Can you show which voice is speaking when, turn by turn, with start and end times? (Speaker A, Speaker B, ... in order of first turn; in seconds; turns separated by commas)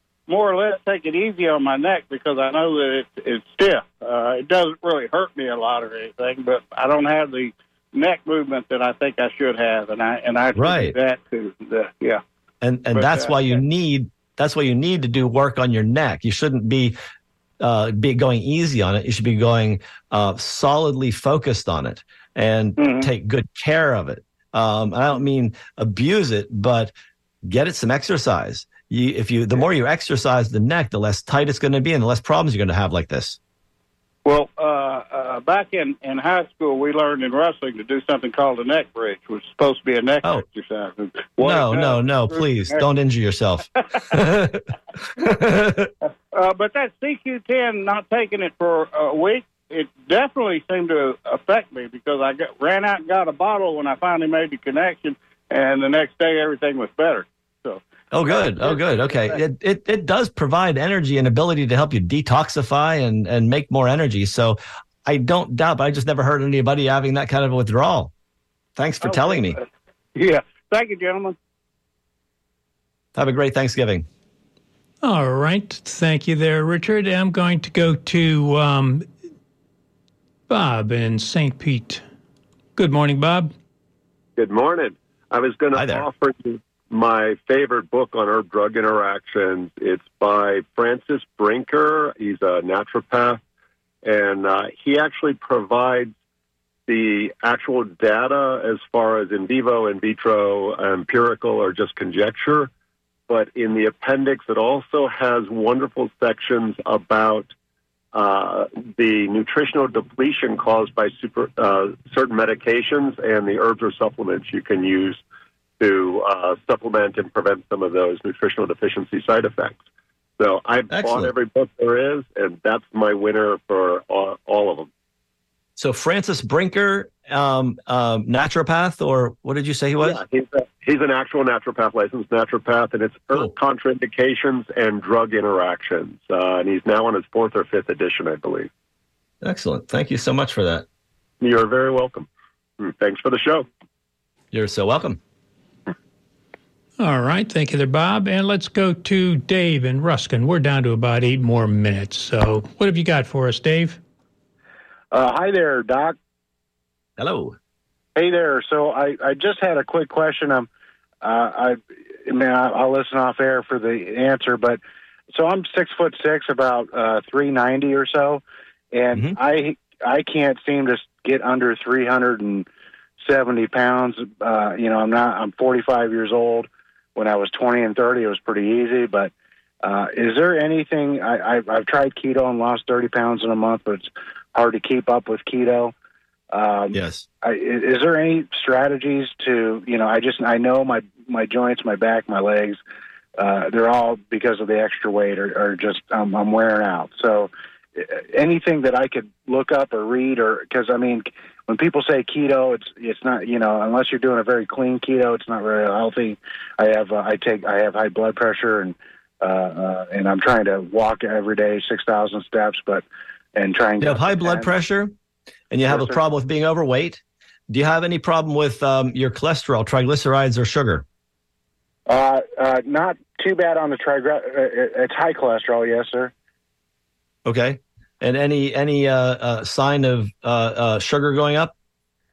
Speaker A: 0.3-12.2, Speaker B: 10.6-10.9, Speaker B: 12.6-16.9, Speaker A: 12.9-13.6, Speaker B: 17.6-33.4, Speaker A: 22.8-23.1, Speaker A: 34.2-42.9, Speaker B: 41.4-45.9, Speaker A: 46.3-59.4, Speaker B: 58.1-68.1, Speaker B: 68.8-69.6, Speaker A: 69.0-69.6, Speaker A: 70.2-71.3, Speaker B: 73.1-74.0, Speaker C: 75.0-79.0, Speaker C: 80.5-82.0, Speaker C: 82.8-83.5, Speaker D: 84.3-93.4, Speaker B: 85.7-86.0, Speaker D: 94.0-96.1, Speaker D: 96.9-102.7, Speaker D: 103.3-107.5, Speaker D: 108.1-115.2, Speaker D: 115.8-119.8, Speaker D: 120.4-124.9, Speaker B: 120.9-121.3, Speaker B: 125.8-130.2, Speaker D: 130.0-138.7, Speaker B: 139.4-140.8, Speaker D: 141.4-142.3, Speaker D: 142.8-143.7, Speaker B: 144.5-145.2, Speaker C: 147.0-154.0, Speaker E: 155.1-156.2, Speaker B: 157.2-157.5, Speaker E: 158.2-160.7, Speaker E: 161.2-164.8, Speaker E: 165.3-172.7, Speaker E: 173.2-179.3, Speaker E: 179.8-185.9, Speaker E: 186.5-192.8, Speaker B: 186.9-187.2, Speaker E: 193.4-214.7, Speaker B: 214.0-215.1, Speaker B: 215.7-221.0, Speaker E: 215.9-216.2, Speaker E: 222.1-226.3, Speaker B: 227.4-231.7